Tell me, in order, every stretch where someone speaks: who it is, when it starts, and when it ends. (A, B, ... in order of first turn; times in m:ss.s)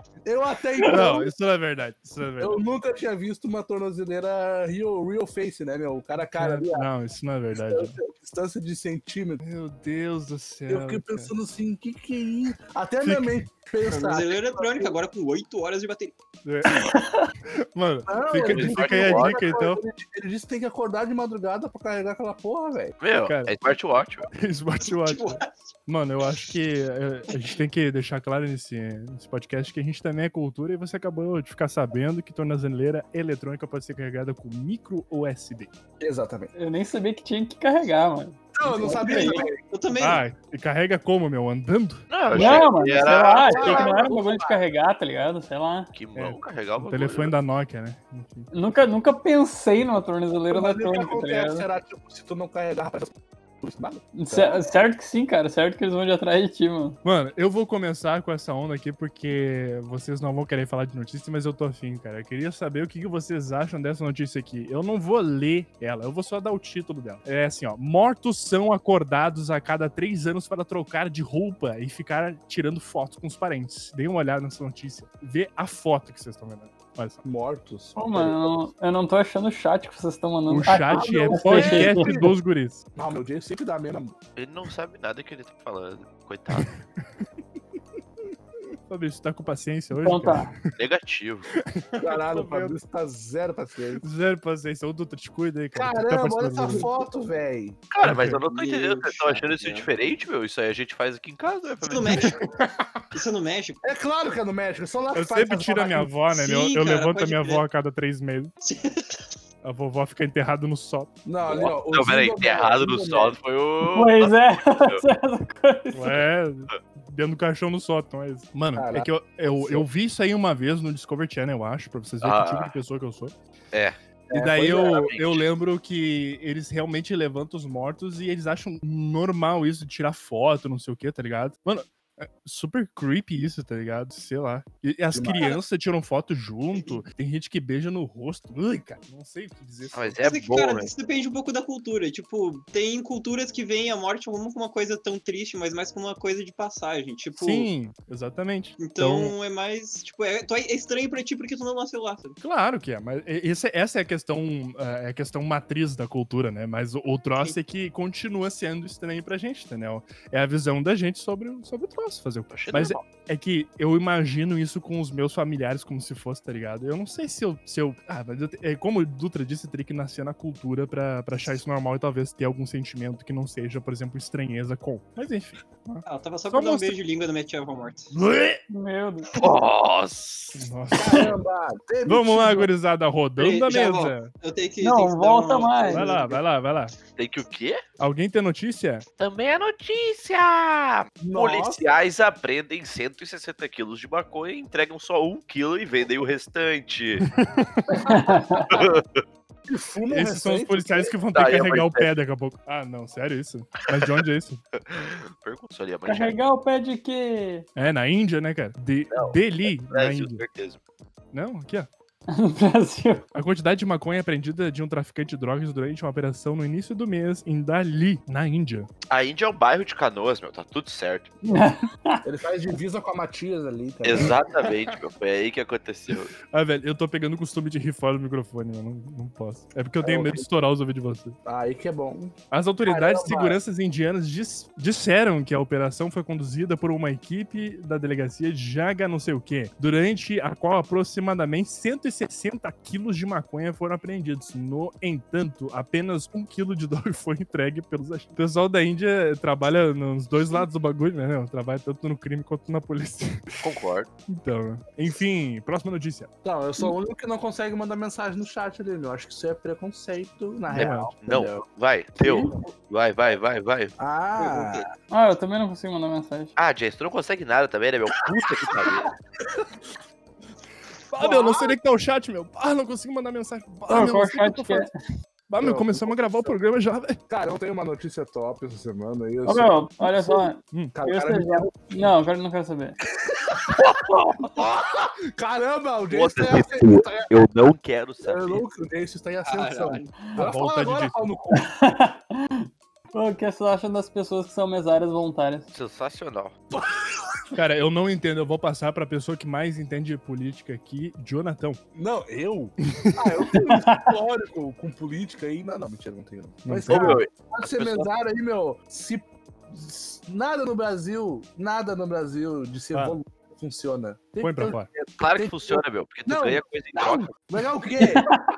0:00.2-0:01.3 A
0:00.8-0:02.6 B
0:02.4-0:06.9 A
0:06.2-0:08.0 B
0:07.6-0:09.4 A
0:09.4-0:11.3 B
0:10.7-0:14.9 A
0:13.0-0:13.4 B
0:13.9-0:16.1 C
0:16.4-0:16.9 B
0:16.8-0:17.3 D
0:17.5-0:19.8 B
0:18.1-0:23.0 A
0:18.4-0:19.4 E
0:23.0-0:24.3 E
0:23.2-0:23.6 B
0:24.3-0:35.7 B
0:24.8-0:25.5 C
0:36.0-0:36.5 A
0:36.5-0:39.5 D
0:38.5-0:39.6 A
0:39.0-0:40.2 C
0:39.9-0:42.1 B
0:42.1-0:44.0 E
0:42.3-0:45.9 D
0:42.3-0:44.6 A
0:45.9-0:47.3 E
0:46.1-0:48.5 B
0:48.5-0:51.6 D
0:50.5-0:54.6 A
0:54.1-0:57.0 D
0:57.0-1:17.2 B
1:17.2-1:18.7 A
1:18.0-1:22.2 D
1:20.5-1:22.8 B
1:20.9-1:22.4 A
1:23.0-1:24.1 A
1:24.4-1:26.7 E
1:26.5-1:26.8 B
1:28.9-1:30.6 B
1:30.0-1:30.5 D
1:30.8-1:31.5 E
1:31.5-1:32.8 B
1:32.0-1:34.0 A
1:34.0-1:37.0 B
1:35.7-1:37.8 A
1:37.9-1:42.4 E
1:38.0-1:38.4 B
1:38.4-1:39.9 C
1:41.8-1:42.5 C
1:42.2-1:43.1 B
1:43.1-1:43.8 C
1:43.8-1:46.1 A
1:45.1-1:48.5 B
1:46.3-1:47.6 C
1:48.6-1:49.3 C
1:49.6-1:51.1 B
1:51.2-1:53.4 A
1:51.4-1:55.0 E
1:53.8-1:56.2 D
1:55.9-2:03.3 B
1:58.7-1:59.9 A
2:02.2-2:02.7 E
2:04.3-2:05.0 A
2:04.3-2:20.2 B
2:04.9-2:05.4 E
2:15.1-2:15.6 A
2:19.9-2:20.9 E
2:20.2-2:27.7 C
2:27.3-2:29.3 B
2:28.8-2:32.4 C
2:32.4-2:56.9 B
2:42.5-2:43.0 E
2:56.0-2:58.1 C
2:58.1-2:58.6 B
2:58.7-2:59.3 D
2:59.4-3:00.6 E
3:00.5-3:01.4 B
3:00.9-3:02.7 A
3:02.0-3:04.3 B
3:03.4-3:06.2 C
3:04.8-3:06.1 D
3:05.9-3:06.9 B
3:05.9-3:06.4 A
3:07.2-3:07.8 E
3:08.0-3:09.0 B
3:09.2-3:17.3 E
3:11.2-3:11.8 A
3:17.2-3:18.0 B
3:17.9-3:18.2 A
3:18.0-3:18.8 D
3:18.7-3:19.2 E
3:19.7-3:21.1 A
3:20.1-3:24.6 B
3:21.3-3:22.1 E
3:23.9-3:24.2 E
3:24.9-3:26.4 E
3:26.1-3:27.7 D
3:27.8-3:30.4 B
3:29.1-3:30.8 E
3:31.3-3:31.9 B
3:32.3-3:33.2 D
3:33.3-3:38.9 B
3:39.1-3:41.3 E
3:41.4-3:42.2 D
3:42.2-3:44.4 A
3:44.0-3:46.3 E
3:46.5-3:51.4 B
3:50.0-3:50.5 A
3:51.4-3:53.6 A
3:52.5-4:13.7 B
4:13.6-4:14.1 E
4:14.3-4:16.3 B
4:16.4-4:21.6 A
4:20.7-4:21.1 B
4:20.7-4:23.9 E
4:22.2-4:22.6 A
4:24.0-4:24.8 A
4:24.4-4:24.8 C
4:25.1-4:26.5 D
4:26.6-4:29.1 E
4:29.4-4:29.7 A
4:31.1-4:34.9 B
4:31.2-4:31.7 A
4:33.9-4:34.9 D
4:35.5-4:37.2 B
4:35.6-4:36.6 A
4:37.3-4:42.1 A
4:39.4-4:43.0 D
4:40.7-4:41.0 B
4:43.1-4:47.4 A
4:43.8-4:44.6 E
4:46.1-4:48.6 E
4:48.2-4:51.7 A
4:49.4-4:50.1 C
4:50.4-4:51.3 B
4:51.5-4:55.7 D
4:55.7-4:56.5 E
4:56.7-4:57.4 A
4:57.5-5:01.8 B
5:01.9-5:18.3 A
5:02.8-5:03.3 B
5:03.6-5:04.0 D
5:06.6-5:07.2 B
5:06.9-5:08.1 E
5:14.4-5:14.9 B
5:15.2-5:17.3 E
5:18.0-5:18.3 D